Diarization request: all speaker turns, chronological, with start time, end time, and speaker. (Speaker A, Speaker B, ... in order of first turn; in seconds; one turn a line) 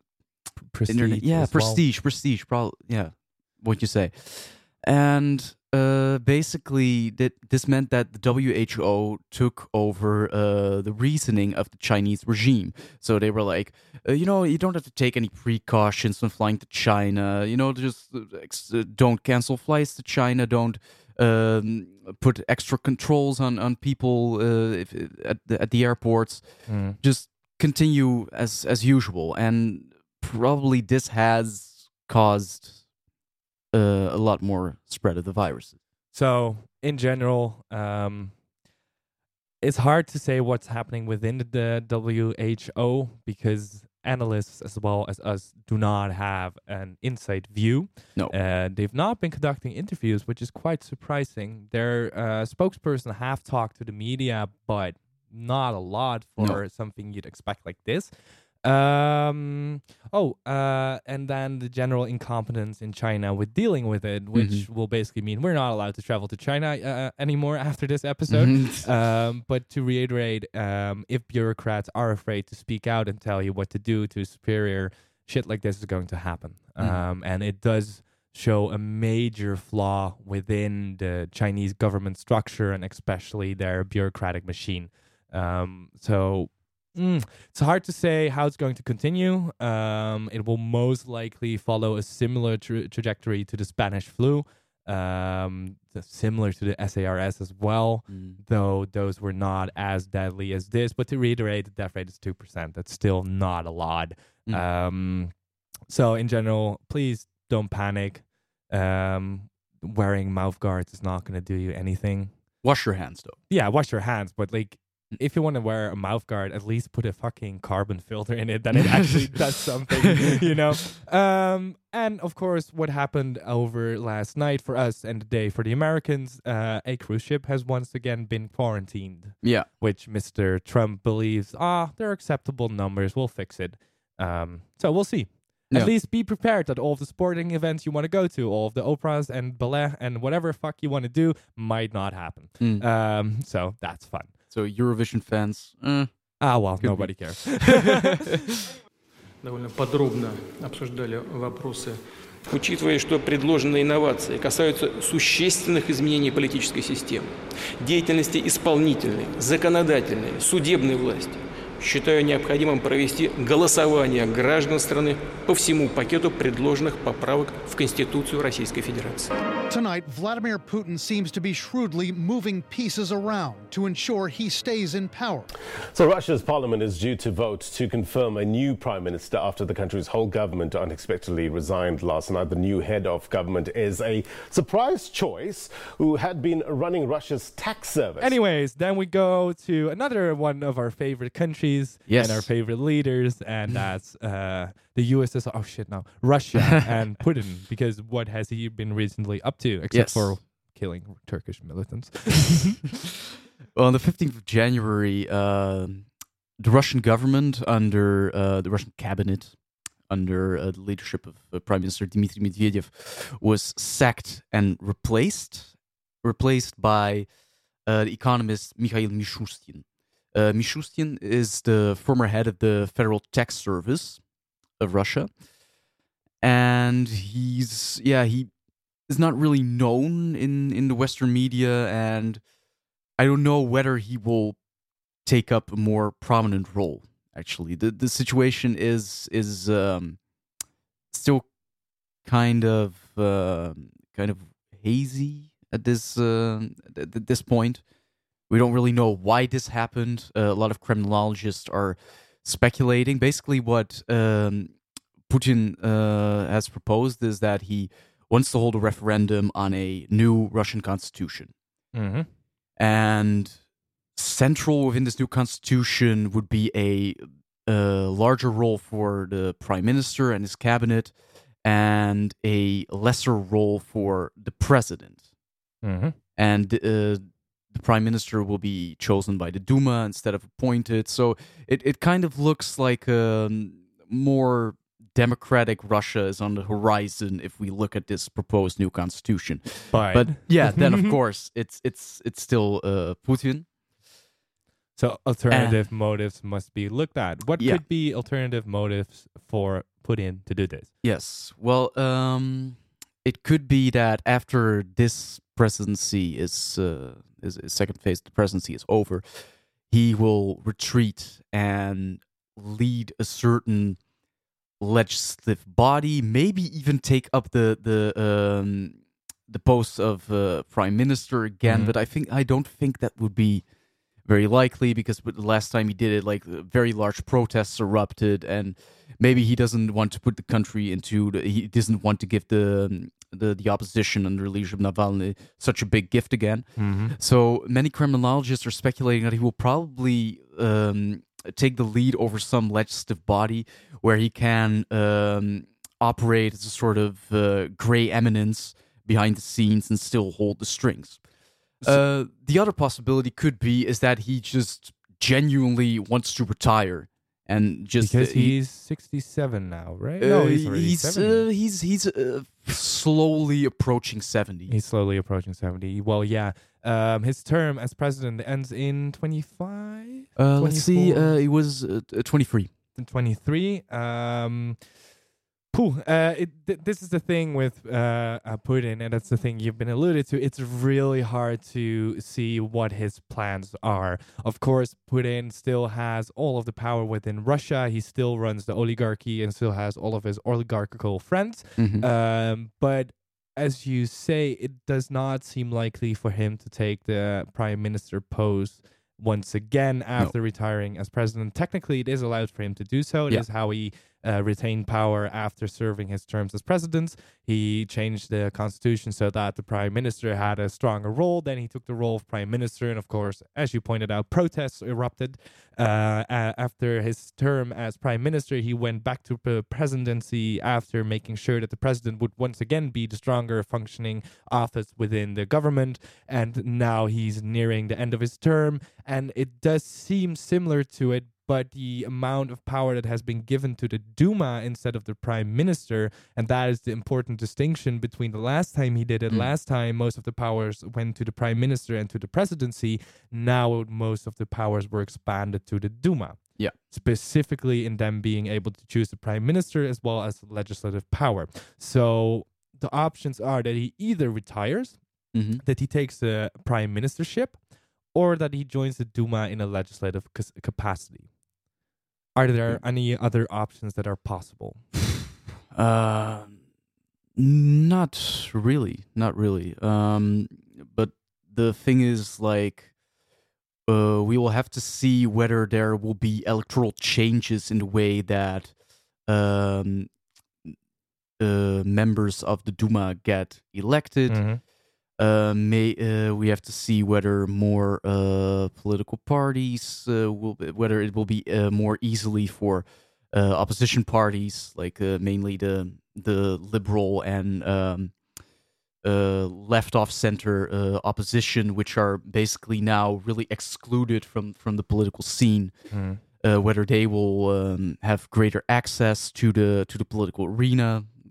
Speaker A: 0.6-1.8
Speaker B: 0.9-32.8
Speaker A: 26.7-27.0
Speaker B: 33.7-35.8
Speaker A: 36.1-38.4
Speaker A: 39.6-58.1
Speaker A: 58.6-105.3
Speaker B: 64.3-64.7
Speaker B: 68.3-68.9
Speaker B: 98.1-98.4
Speaker A: 105.9-112.3
Speaker B: 112.6-113.4
Speaker A: 113.5-144.3
Speaker B: 120.1-120.3
Speaker B: 129.4-129.7
Speaker B: 142.6-142.9
Speaker B: 144.5-148.1
Speaker A: 146.4-148.2
Speaker C: 149.4-152.0
Speaker D: 152.5-169.3
Speaker E: 169.7-175.5
Speaker F: 175.9-188.3
Speaker A: 188.2-202.8
Speaker B: 192.1-192.5
Speaker B: 199.9-200.4
Speaker B: 203.8-206.1
Speaker B: 206.6-209.6
Speaker B: 210.1-217.3
Speaker B: 217.9-224.2
Speaker B: 224.8-225.3
Speaker B: 226.4-228.5
Speaker B: 229.1-232.4
Speaker B: 233.2-234.6
Speaker B: 235.2-240.2
Speaker B: 241.1-241.5
Speaker B: 242.2-247.8
Speaker B: 248.5-254.8
Speaker B: 255.3-261.5
Speaker A: 261.9-262.3
Speaker B: 262.8-263.6
Speaker B: 264.2-275.2
Speaker A: 275.8-276.2
Speaker B: 276.4-293.7
Speaker A: 289.9-291.1
Speaker A: 295.0-300.9
Speaker B: 295.5-295.9
Speaker B: 301.0-314.0
Speaker B: 314.8-323.6
Speaker A: 321.7-321.9
Speaker B: 324.3-351.2
Speaker A: 336.8-337.2
Speaker B: 351.8-358.6
Speaker A: 358.0-361.4
Speaker B: 360.2-364.7
Speaker A: 364.7-371.4
Speaker B: 370.4-372.7
Speaker A: 373.0-374.8
Speaker A: 375.7-455.0
Speaker B: 391.8-392.1
Speaker B: 455.3-455.6
Speaker A: 455.6-457.6
Speaker A: 458.1-461.3
Speaker A: 462.4-464.9
Speaker B: 465.7-466.6
Speaker B: 467.4-472.9
Speaker B: 473.9-478.8
Speaker B: 479.3-480.1
Speaker B: 481.4-484.5
Speaker A: 484.3-484.6
Speaker B: 485.2-498.2
Speaker B: 499.0-505.7
Speaker A: 505.9-506.2
Speaker B: 506.4-511.1